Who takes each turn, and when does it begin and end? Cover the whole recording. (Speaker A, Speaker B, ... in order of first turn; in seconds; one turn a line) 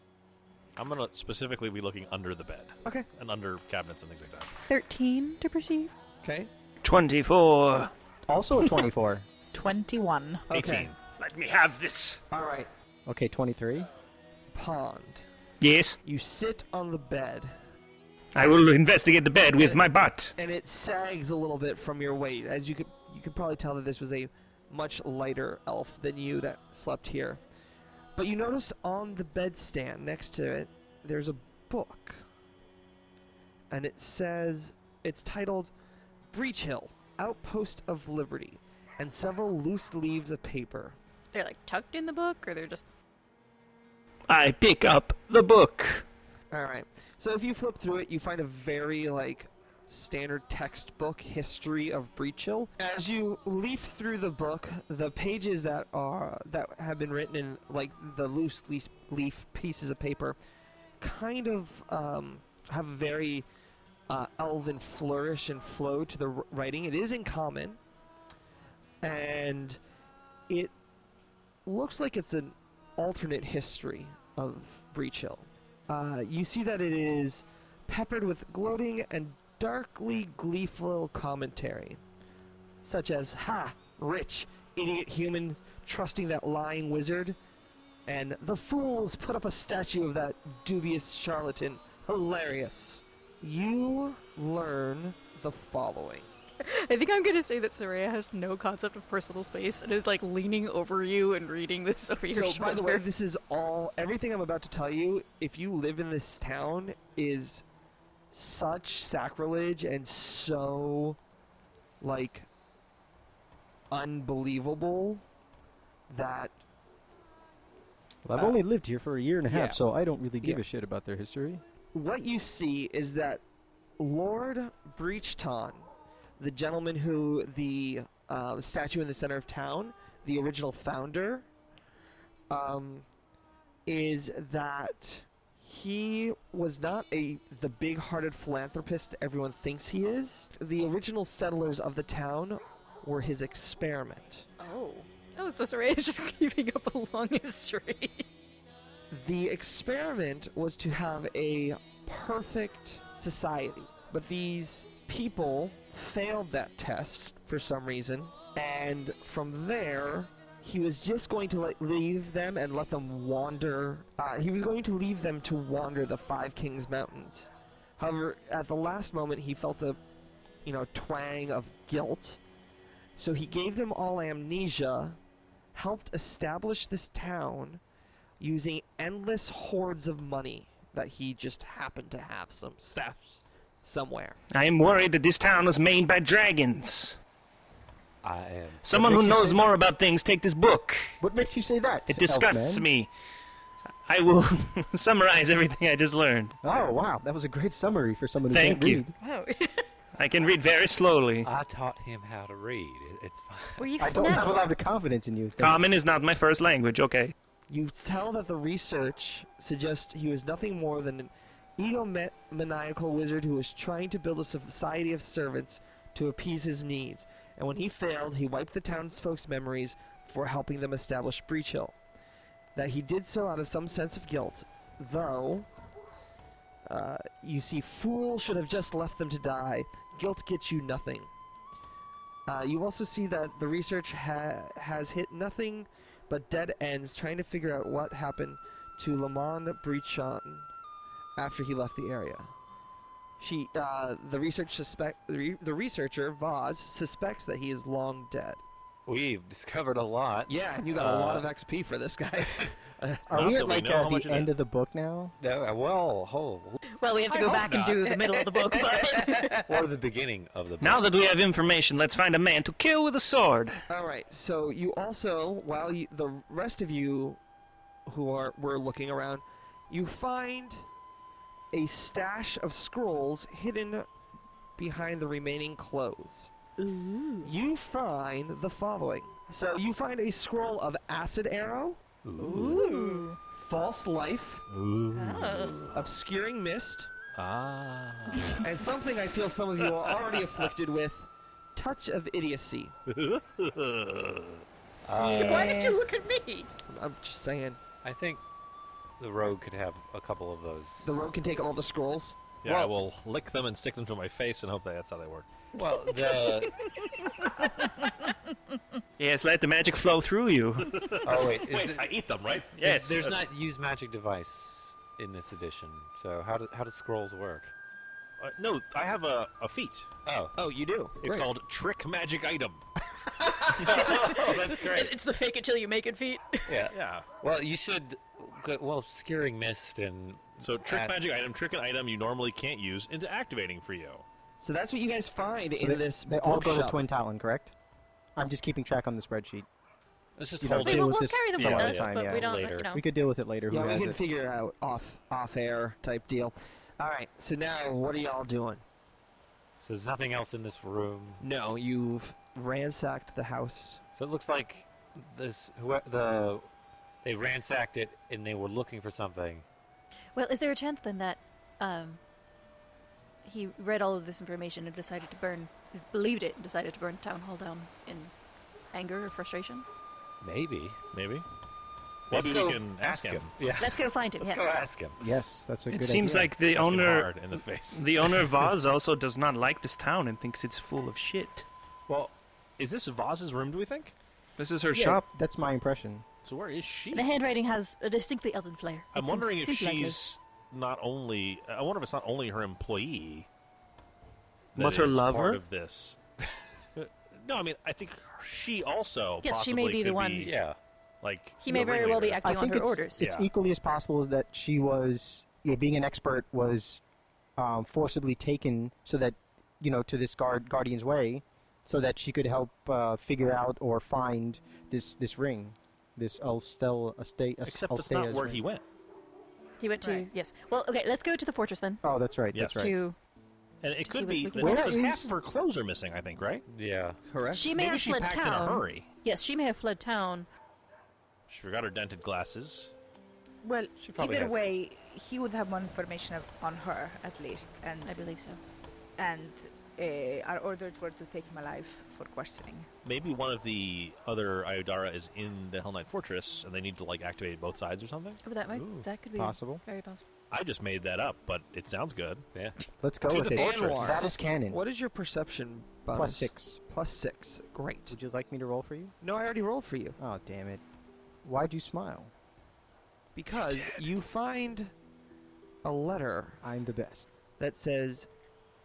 Speaker A: 0.8-4.5
Speaker B: 4.5-5.9
Speaker C: 6.2-6.5
Speaker D: 6.8-7.9
Speaker E: 8.3-9.3
Speaker F: 9.5-10.5
Speaker C: 10.5-10.9
Speaker A: 10.5-10.9
Speaker D: 11.1-12.2
Speaker C: 12.3-12.7
Speaker E: 13.1-13.9
Speaker C: 14.5-15.2
Speaker D: 15.6-16.0
Speaker C: 16.0-17.5
Speaker D: 18.4-20.3
Speaker C: 19.5-19.8
Speaker C: 20.4-27.4
Speaker C: 28.1-32.2
Speaker C: 33.7-35.7
Speaker C: 36.3-41.0
Speaker B: 41.3-42.9
Speaker D: 44.3-46.0
Speaker C: 46.5-60.4
Speaker C: 61.0-63.5
Speaker C: 64.1-67.8
Speaker C: 69.0-69.8
Speaker C: 71.6-82.0
Speaker C: 82.8-87.3
Speaker C: 88.0-96.3
Speaker B: 96.6-103.0
Speaker C: 102.3-107.6
Speaker C: 108.3-111.2
Speaker C: 112.0-112.5
Speaker C: 113.9-115.2
Speaker C: 116.1-116.6
Speaker E: 118.2-121.6
Speaker C: 119.5-119.8
Speaker C: 121.9-123.4
Speaker C: 124.0-131.5
Speaker C: 132.5-133.1
Speaker C: 133.8-144.5
Speaker F: 144.6-145.1
Speaker B: 145.3-148.2
Speaker C: 149.1-170.0
Speaker C: 170.6-172.4
Speaker C: 173.2-175.2
Speaker C: 175.7-177.8
Speaker C: 178.4-184.4
Speaker D: 184.5-187.2
Speaker G: 188.2-188.9
Speaker D: 188.8-191.2
Speaker E: 188.9-189.6
Speaker E: 191.2-192.9
Speaker D: 192.1-193.1
Speaker D: 194.0-196.6
Speaker E: 196.6-199.1
Speaker D: 198.5-199.1
Speaker B: 199.2-199.9
Speaker D: 200.2-201.5
Speaker G: 201.4-203.9
Speaker B: 203.8-204.6
Speaker E: 204.0-205.8
Speaker D: 205.6-207.3
Speaker C: 207.7-221.9
Speaker C: 222.7-225.7
Speaker C: 226.8-231.3
Speaker C: 232.4-240.7
Speaker C: 241.3-242.5
Speaker C: 243.4-248.6
Speaker G: 249.1-251.5
Speaker C: 250.5-253.2
Speaker E: 253.3-255.3
Speaker A: 253.3-254.5
Speaker G: 255.4-256.8
Speaker B: 256.9-259.6
Speaker F: 257.4-259.5
Speaker A: 257.5-257.8
Speaker G: 259.6-261.0
Speaker D: 260.8-263.8
Speaker C: 263.9-267.4
Speaker C: 268.1-270.8
Speaker C: 271.7-274.1
Speaker C: 274.8-276.5
Speaker F: 276.8-277.5
Speaker C: 277.4-282.0
Speaker A: 282.3-282.8
Speaker F: 282.4-283.4
Speaker B: 282.5-283.3
Speaker C: 283.5-284.6
Speaker A: 284.7-286.1
Speaker B: 285.1-285.9
Speaker C: 285.9-287.1
Speaker A: 287.3-288.7
Speaker C: 288.6-292.9
Speaker A: 289.8-290.7
Speaker A: 293.1-294.6
Speaker G: 295.0-295.8
Speaker B: 295.1-296.7
Speaker F: 295.2-296.0
Speaker C: 296.9-297.8
Speaker G: 298.0-298.4
Speaker G: 299.2-301.3
Speaker C: 301.0-302.9
Speaker A: 302.6-305.5
Speaker G: 305.7-306.7
Speaker B: 306.1-306.5
Speaker D: 309.2-311.2
Speaker A: 310.8-313.4
Speaker G: 311.2-312.1
Speaker D: 312.7-313.2
Speaker G: 312.8-317.7
Speaker A: 318.4-320.1
Speaker G: 320.2-320.6
Speaker C: 320.6-321.5
Speaker A: 321.2-322.9
Speaker G: 323.7-325.1
Speaker B: 323.9-326.9
Speaker G: 326.7-331.2
Speaker A: 326.9-327.2
Speaker A: 330.6-334.2
Speaker C: 334.6-337.0
Speaker E: 335.7-337.7
Speaker E: 338.4-339.7
Speaker G: 340.4-342.9
Speaker E: 340.6-344.2
Speaker B: 340.8-343.0
Speaker C: 343.7-348.8
Speaker G: 349.8-351.4
Speaker C: 351.4-354.0
Speaker G: 354.1-356.7
Speaker G: 357.2-359.6
Speaker B: 360.3-362.2
Speaker B: 363.4-368.3
Speaker B: 368.9-369.9
Speaker G: 370.4-371.0
Speaker A: 371.1-371.4
Speaker G: 372.3-375.2
Speaker A: 372.3-373.6
Speaker B: 373.8-374.8
Speaker E: 375.2-376.5
Speaker D: 375.9-377.3
Speaker A: 376.6-378.7
Speaker D: 377.9-381.6
Speaker A: 382.1-384.1
Speaker D: 384.6-385.2
Speaker E: 384.9-386.2
Speaker A: 386.4-387.3
Speaker B: 387.1-390.3
Speaker A: 389.1-393.5
Speaker D: 394.7-395.6
Speaker A: 394.7-396.2
Speaker A: 396.9-400.5
Speaker B: 399.4-400.5
Speaker G: 400.4-400.8
Speaker A: 401.2-402.4
Speaker B: 401.6-403.2
Speaker E: 402.4-407.0
Speaker A: 403.2-403.5
Speaker E: 407.6-418.6
Speaker A: 417.6-418.8
Speaker B: 419.8-422.0
Speaker F: 420.0-420.3
Speaker E: 422.0-422.9
Speaker A: 422.5-422.9
Speaker B: 422.7-423.1
Speaker A: 423.8-426.6
Speaker B: 424.0-425.1
Speaker E: 424.5-425.3
Speaker G: 426.7-427.2
Speaker C: 427.2-427.7
Speaker B: 427.5-430.5
Speaker A: 427.7-429.1
Speaker A: 431.5-432.9
Speaker F: 433.6-438.3
Speaker G: 434.0-434.6
Speaker B: 438.0-438.6
Speaker F: 439.2-442.9
Speaker A: 443.0-448.4
Speaker B: 448.4-450.2
Speaker G: 448.7-449.1
Speaker E: 449.4-449.8
Speaker A: 450.5-452.4
Speaker E: 453.0-454.8
Speaker A: 453.3-454.3
Speaker C: 453.3-458.1
Speaker E: 456.1-456.8
Speaker E: 458.1-459.1
Speaker C: 459.2-460.2
Speaker E: 460.2-460.8
Speaker E: 461.4-462.3
Speaker C: 463.3-464.9
Speaker C: 465.8-466.6
Speaker E: 466.6-467.3
Speaker C: 467.6-468.3